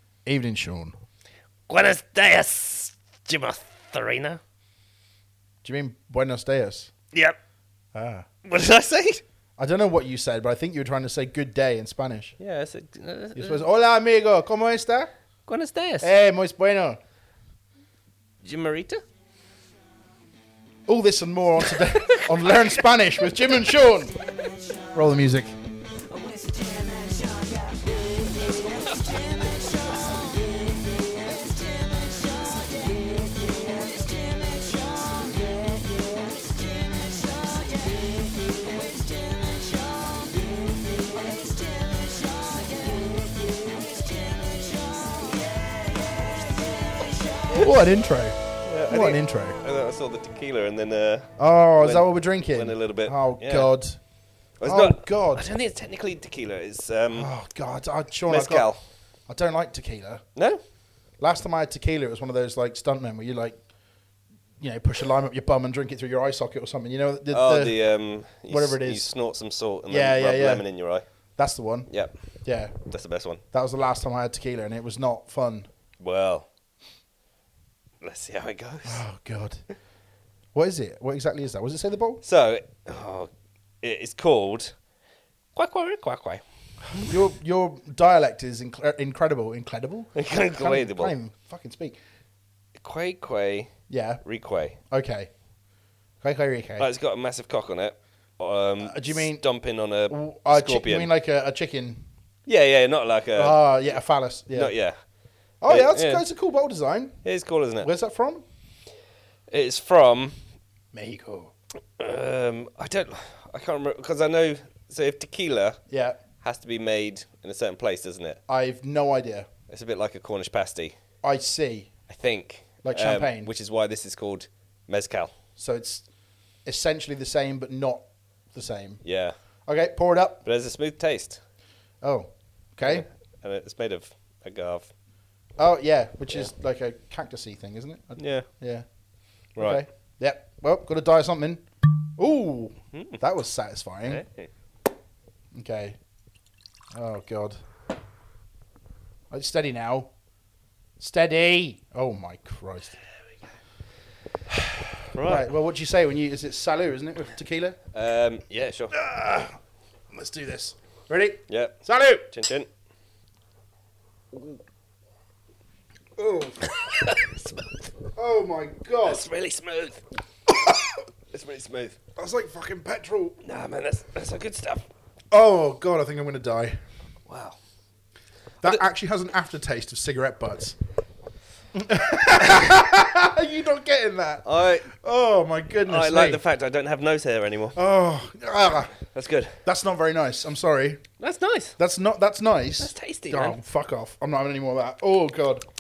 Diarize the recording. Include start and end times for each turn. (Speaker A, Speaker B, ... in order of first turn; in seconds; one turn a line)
Speaker A: 0.3-0.9
Speaker B: 1.7-4.4
Speaker A: 5.6-6.9
Speaker B: 7.1-7.4
Speaker A: 7.9-8.3
Speaker B: 8.4-9.2
Speaker A: 9.6-12.4
Speaker B: 12.4-13.6
Speaker A: 13.4-15.1
Speaker B: 15.5-16.1
Speaker A: 16.0-17.0
Speaker B: 18.4-19.0
Speaker A: 20.9-24.1
Speaker B: 21.7-22.8
Speaker A: 24.9-25.5
Speaker B: 26.2-27.1
Speaker A: 47.5-49.6
Speaker B: 48.6-53.7
Speaker A: 51.4-54.0
Speaker B: 54.6-57.3
Speaker A: 54.6-55.5
Speaker A: 57.1-58.7
Speaker B: 58.3-58.8
Speaker A: 59.3-60.2
Speaker B: 60.4-60.6
Speaker A: 61.2-63.6
Speaker A: 64.6-67.8
Speaker B: 67.3-71.1
Speaker A: 68.5-69.1
Speaker A: 69.9-70.7
Speaker A: 71.4-71.9
Speaker B: 71.9-72.2
Speaker A: 72.4-72.8
Speaker B: 72.9-73.4
Speaker A: 73.5-75.7
Speaker B: 76.0-76.5
Speaker B: 78.0-79.0
Speaker A: 78.8-79.6
Speaker A: 80.5-82.2
Speaker B: 82.2-83.3
Speaker B: 83.8-84.8
Speaker B: 85.6-86.4
Speaker A: 87.0-92.0
Speaker B: 90.2-91.1
Speaker B: 92.8-94.8
Speaker A: 93.9-94.2
Speaker A: 94.9-95.3
Speaker A: 96.2-96.9
Speaker B: 96.8-101.1
Speaker A: 98.8-99.4
Speaker A: 100.1-102.1
Speaker B: 102.5-103.7
Speaker A: 103.4-104.7
Speaker B: 104.5-105.0
Speaker A: 105.6-107.2
Speaker B: 105.7-106.2
Speaker B: 107.2-107.9
Speaker A: 107.8-108.4
Speaker B: 109.5-110.4
Speaker A: 110.9-111.5
Speaker B: 112.0-115.8
Speaker A: 115.9-116.2
Speaker B: 116.4-118.4
Speaker A: 118.5-119.5
Speaker B: 119.7-121.0
Speaker A: 121.2-121.9
Speaker B: 122.1-125.3
Speaker A: 122.8-123.5
Speaker A: 125.6-126.1
Speaker A: 126.7-129.0
Speaker B: 129.0-129.4
Speaker A: 129.7-130.4
Speaker B: 130.4-131.4
Speaker A: 132.0-133.1
Speaker B: 132.8-134.9
Speaker A: 135.6-138.8
Speaker B: 138.2-138.5
Speaker B: 139.6-139.8
Speaker A: 139.6-144.2
Speaker B: 142.9-143.2
Speaker B: 144.1-144.5
Speaker A: 145.5-146.0
Speaker A: 146.9-147.6
Speaker A: 149.3-150.1
Speaker A: 151.0-153.0
Speaker B: 155.1-155.5
Speaker A: 155.2-157.8
Speaker B: 157.9-158.9
Speaker A: 158.9-159.6
Speaker A: 160.1-162.3
Speaker B: 161.5-162.7
Speaker B: 164.3-164.6
Speaker A: 166.2-166.6
Speaker B: 166.6-167.9
Speaker A: 168.2-169.2
Speaker B: 169.0-170.0
Speaker A: 170.5-170.8
Speaker B: 171.3-172.0
Speaker A: 172.2-173.4
Speaker B: 173.4-174.9
Speaker A: 175.3-176.8
Speaker B: 177.3-177.6
Speaker A: 178.6-180.8
Speaker A: 181.7-186.4
Speaker B: 184.4-184.9
Speaker B: 185.9-187.8
Speaker A: 187.8-189.0
Speaker B: 189.1-189.6
Speaker A: 189.6-191.0
Speaker B: 191.2-191.8
Speaker A: 191.8-195.7
Speaker B: 192.8-193.6